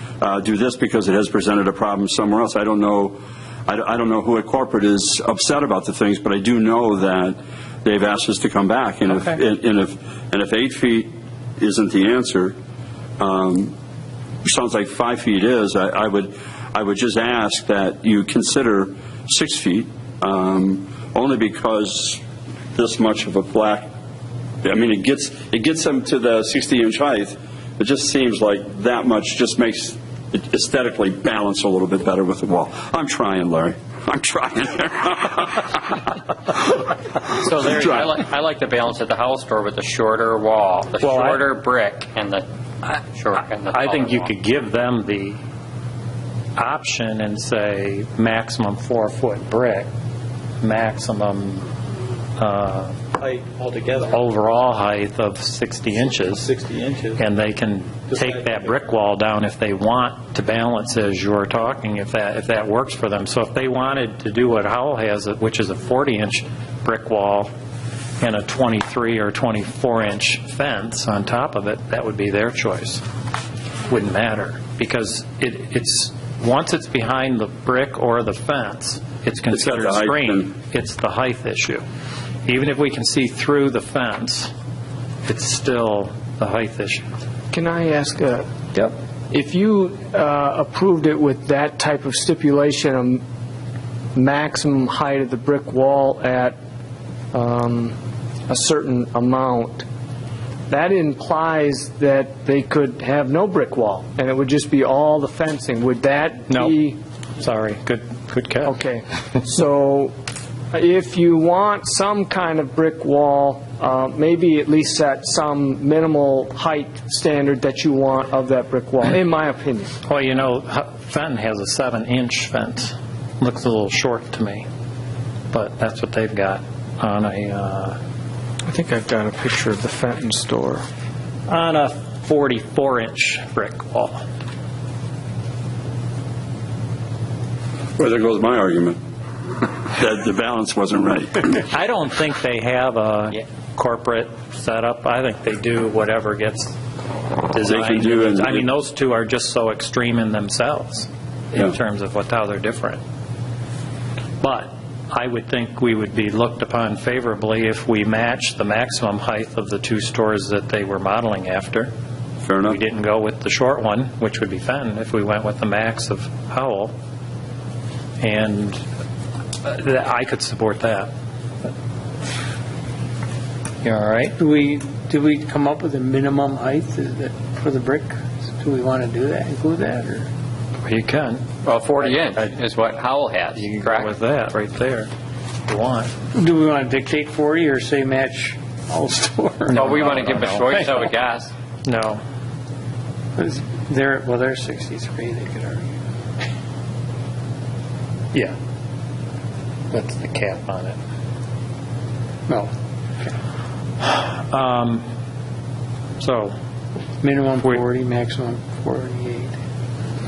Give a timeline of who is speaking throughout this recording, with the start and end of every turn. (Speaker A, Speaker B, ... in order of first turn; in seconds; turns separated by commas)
Speaker A: 0.2-12.6, Speaker A: 13.2-13.8, Speaker A: 14.4-22.2, Speaker A: 22.7-23.9, Speaker A: 24.6-36.0, Speaker B: 37.3-44.3, Speaker C: 41.0-41.5, Speaker C: 43.4-45.4, Speaker C: 46.6-49.9, Speaker C: 50.6-51.6, Speaker C: 52.4-53.0, Speaker D: 53.2-54.1, Speaker C: 54.0-56.5, Speaker D: 56.5-57.2, Speaker C: 57.1-67.5, Speaker D: 58.1-58.6, Speaker C: 68.2-73.0, Speaker C: 73.9-81.8, Speaker A: 79.5-80.5, Speaker C: 82.5-84.5, Speaker C: 85.3-87.1, Speaker E: 87.5-93.2, Speaker E: 94.2-96.6, Speaker E: 97.3-98.0, Speaker E: 98.5-99.9, Speaker E: 100.7-107.0, Speaker C: 106.5-106.8, Speaker C: 107.4-108.8, Speaker E: 108.7-110.1, Speaker E: 110.7-119.9, Speaker C: 120.0-124.7, Speaker C: 125.5-128.0, Speaker E: 128.7-130.8, Speaker C: 131.5-134.2, Speaker A: 138.0-139.0, Speaker A: 139.6-141.6, Speaker C: 141.6-146.8, Speaker C: 147.4-153.0, Speaker A: 147.7-148.7, Speaker C: 154.4-161.9, Speaker A: 162.4-162.8, Speaker C: 162.7-166.9, Speaker C: 168.2-168.8, Speaker C: 169.6-171.1, Speaker C: 173.8-174.4, Speaker F: 174.4-180.3, Speaker C: 180.8-182.6, Speaker B: 181.6-184.1, Speaker C: 183.5-185.1, Speaker C: 185.7-186.1, Speaker F: 186.3-191.1, Speaker C: 189.7-190.8, Speaker B: 189.7-191.5, Speaker C: 191.8-192.2, Speaker F: 193.4-196.0, Speaker C: 199.9-201.0, Speaker C: 204.0-205.1, Speaker C: 206.2-206.6, Speaker F: 207.2-209.6